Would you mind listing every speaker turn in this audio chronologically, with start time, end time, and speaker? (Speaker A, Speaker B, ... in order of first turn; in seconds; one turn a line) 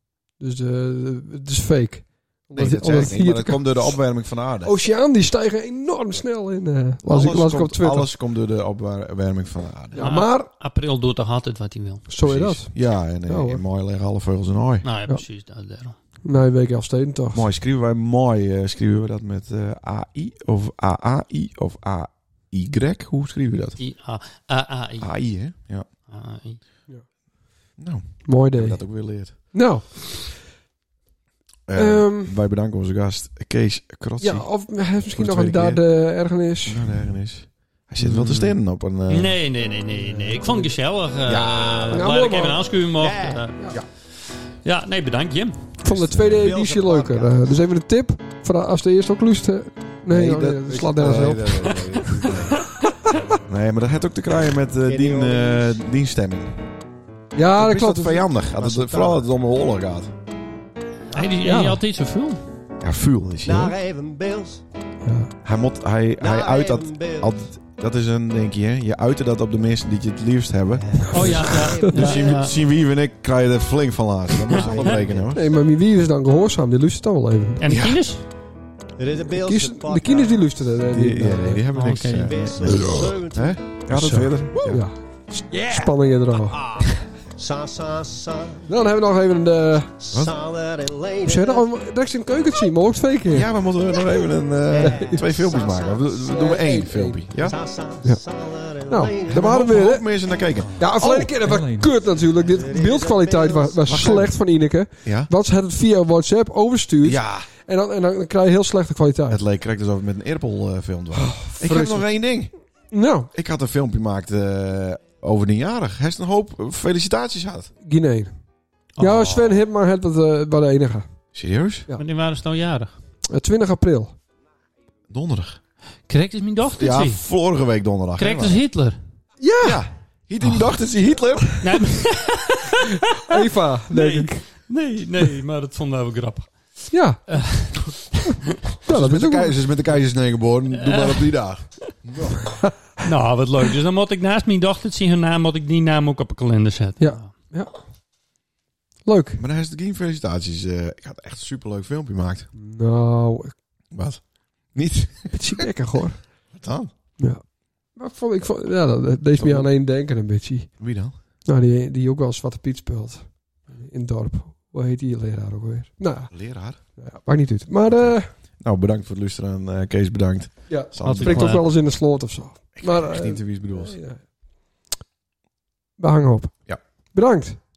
Speaker A: 0.4-4.0
Speaker B: 2.5-4.7
Speaker A: 4.6-8.1
Speaker B: 7.0-10.1
Speaker A: 9.9-10.5
Speaker C: 10.0-12.1
Speaker A: 12.1-13.6
Speaker B: 12.2-14.9
Speaker C: 14.8-16.0
Speaker A: 16.2-17.4
Speaker B: 17.3-23.8
Speaker C: 23.8-25.1
Speaker B: 25.0-25.9
Speaker C: 26.1-26.6
Speaker B: 27.8-29.4
Speaker A: 28.3-30.4
Speaker B: 31.7-34.6
Speaker A: 31.8-32.4
Speaker A: 34.2-36.9
Speaker B: 35.1-35.9
Speaker B: 36.6-39.4
Speaker C: 38.0-38.5
Speaker C: 39.1-43.8
Speaker A: 40.3-40.7
Speaker B: 41.2-42.1
Speaker A: 41.9-42.6
Speaker D: 43.0-43.5
Speaker C: 44.6-45.7
Speaker A: 45.8-52.3
Speaker B: 45.9-46.5
Speaker D: 46.3-47.4
Speaker B: 50.1-52.7
Speaker B: 53.5-56.6
Speaker D: 54.9-55.7
Speaker A: 57.3-58.4
Speaker B: 57.6-60.1
Speaker D: 58.6-59.2
Speaker C: 61.1-62.4
Speaker A: 61.4-61.8
Speaker B: 62.8-63.8
Speaker D: 63.5-64.6
Speaker A: 65.0-65.3
Speaker B: 65.4-75.4
Speaker D: 66.2-67.3
Speaker D: 70.9-72.1
Speaker C: 71.1-72.5
Speaker A: 71.1-71.9
Speaker D: 74.5-75.4
Speaker C: 74.5-74.9
Speaker A: 75.3-77.6
Speaker C: 77.6-78.2
Speaker B: 77.7-78.0
Speaker D: 79.0-80.5
Speaker A: 79.4-81.6
Speaker B: 80.9-84.8
Speaker C: 81.7-82.4
Speaker D: 82.2-83.7
Speaker A: 83.9-86.6
Speaker D: 87.4-88.7
Speaker A: 88.7-90.0
Speaker D: 90.0-91.7
Speaker A: 91.2-93.5
Speaker B: 93.3-97.5
Speaker D: 94.7-96.2
Speaker A: 94.8-95.2
Speaker A: 96.2-97.3
Speaker D: 97.3-99.5
Speaker A: 98.9-100.0
Speaker B: 99.3-101.3
Speaker C: 100.8-101.8
Speaker A: 100.8-109.4
Speaker D: 102.5-104.0
Speaker B: 103.9-104.4
Speaker B: 105.0-105.3
Speaker B: 107.0-107.5
Speaker B: 109.3-112.5
Speaker A: 111.1-112.1
Speaker A: 112.9-113.3
Speaker B: 113.3-117.7
Speaker A: 117.8-118.3
Speaker C: 119.0-119.6
Speaker A: 119.0-121.1
Speaker B: 121.3-121.9
Speaker C: 122.0-122.9
Speaker A: 123.3-124.1
Speaker B: 125.1-125.6
Speaker C: 126.1-127.2
Speaker B: 126.8-128.6
Speaker C: 128.2-129.0
Speaker A: 129.4-129.8
Speaker B: 129.6-131.7
Speaker C: 131.6-133.4
Speaker A: 133.2-134.4
Speaker C: 133.9-136.5
Speaker A: 136.9-137.3
Speaker C: 137.3-138.5
Speaker B: 138.8-142.5
Speaker A: 138.8-139.6
Speaker C: 140.8-141.3
Speaker C: 143.0-147.3
Speaker A: 147.0-147.7
Speaker A: 149.1-149.4
Speaker B: 149.4-152.5
Speaker A: 152.6-153.5
Speaker B: 153.9-155.7
Speaker A: 155.3-156.2
Speaker B: 156.5-156.9
Speaker A: 158.0-160.7
Speaker B: 159.4-159.7
Speaker B: 160.8-161.2
Speaker A: 161.4-166.3
Speaker B: 166.3-166.8
Speaker A: 167.0-168.3
Speaker B: 167.9-171.6
Speaker A: 170.7-174.2
Speaker C: 171.0-171.6
Speaker B: 172.8-174.0
Speaker A: 176.0-176.6
Speaker A: 177.1-177.6